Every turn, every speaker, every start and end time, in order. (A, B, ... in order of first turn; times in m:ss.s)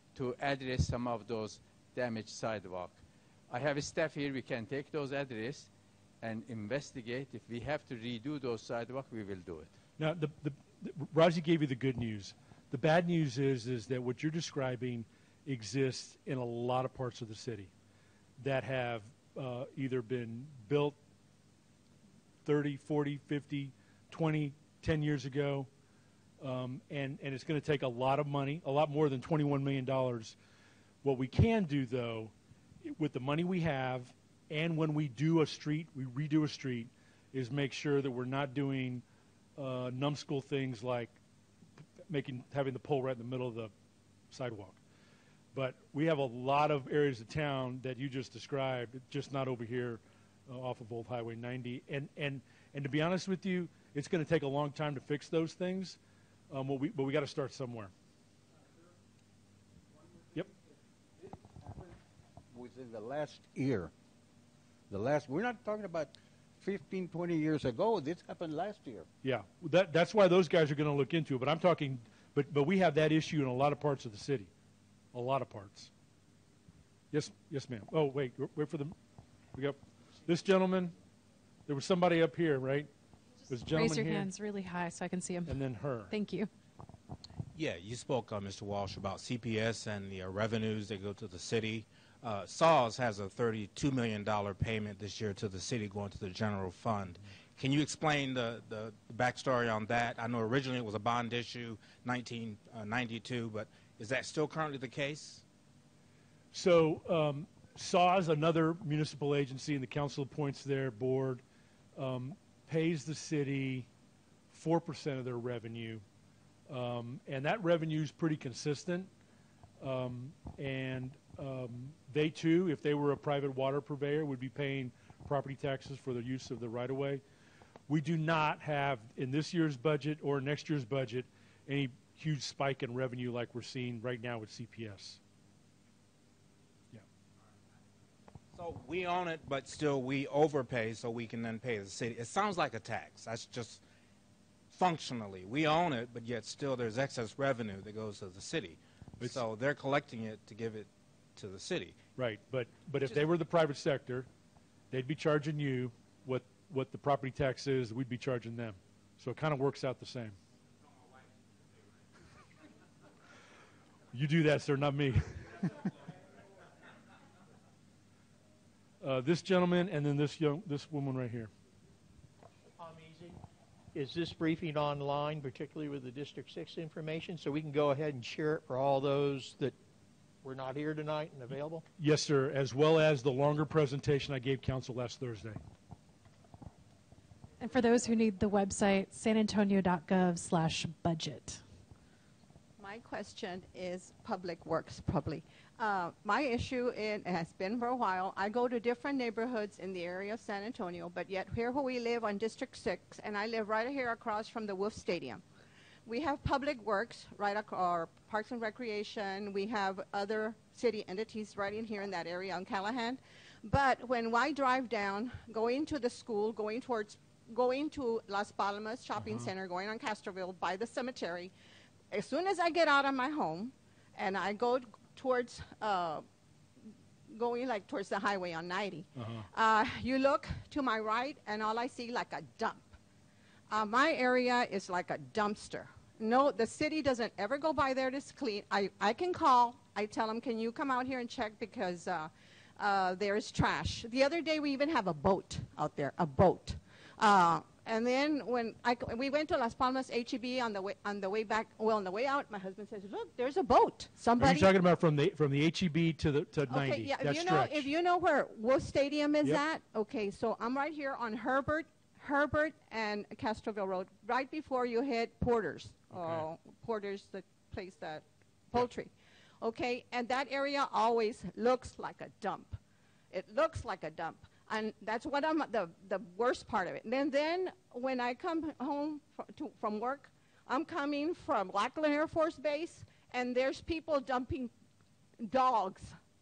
0:00.1-0:05.7 A
0:06.2-0:09.7 A
0:10.0-0:17.7 B
0:18.4-0:21.0 B
0:22.4-0:25.7 B
0:26.4-0:30.4 B
0:31.0-0:39.0 B
0:39.6-0:41.2 B
0:42.0-0:43.7 B
0:44.3-0:44.8 B
0:45.5-0:56.0 B
0:56.5-0:57.9 B
1:01.2-1:02.0 C
1:02.5-1:03.9 C
1:04.9-1:09.1 C
1:09.2-1:14.5 B
1:15.1-1:15.9 B
1:17.1-1:18.9 B
1:19.5-1:20.9 B
1:21.7-1:22.9 B
1:23.5-1:24.3 B
1:23.7-1:26.5 D
1:25.4-1:26.1 B
1:27.5-1:45.4 E
1:46.5-1:51.4 B
1:52.0-1:53.9 B
1:54.5-1:56.0 B
1:56.7-1:59.1 B
1:59.8-2:07.2 B
2:07.9-2:15.2 B
2:18.6-2:23.8 E
2:24.7-2:32.0 E
2:32.2-2:34.3 B
2:34.9-2:40.4 B
2:44.1-2:45.7 B
2:49.0-2:51.5 B
2:52.8-2:53.4 F
2:53.9-2:59.7 F
3:00.4-3:01.8 F
3:02.0-3:05.6 B
3:07.6-3:11.6 D
3:12.8-3:25.4 G
3:26.0-3:41.5 G
3:39.2-3:39.5 B
3:42.1-3:46.2 G
3:46.8-3:52.9 G
3:49.1-3:49.5 B
3:53.7-4:14.7 G
4:14.4-4:17.9 B
4:16.7-4:32.8 G
4:26.1-4:26.5 B
4:33.3-4:44.7 G
4:45.4-4:46.2 G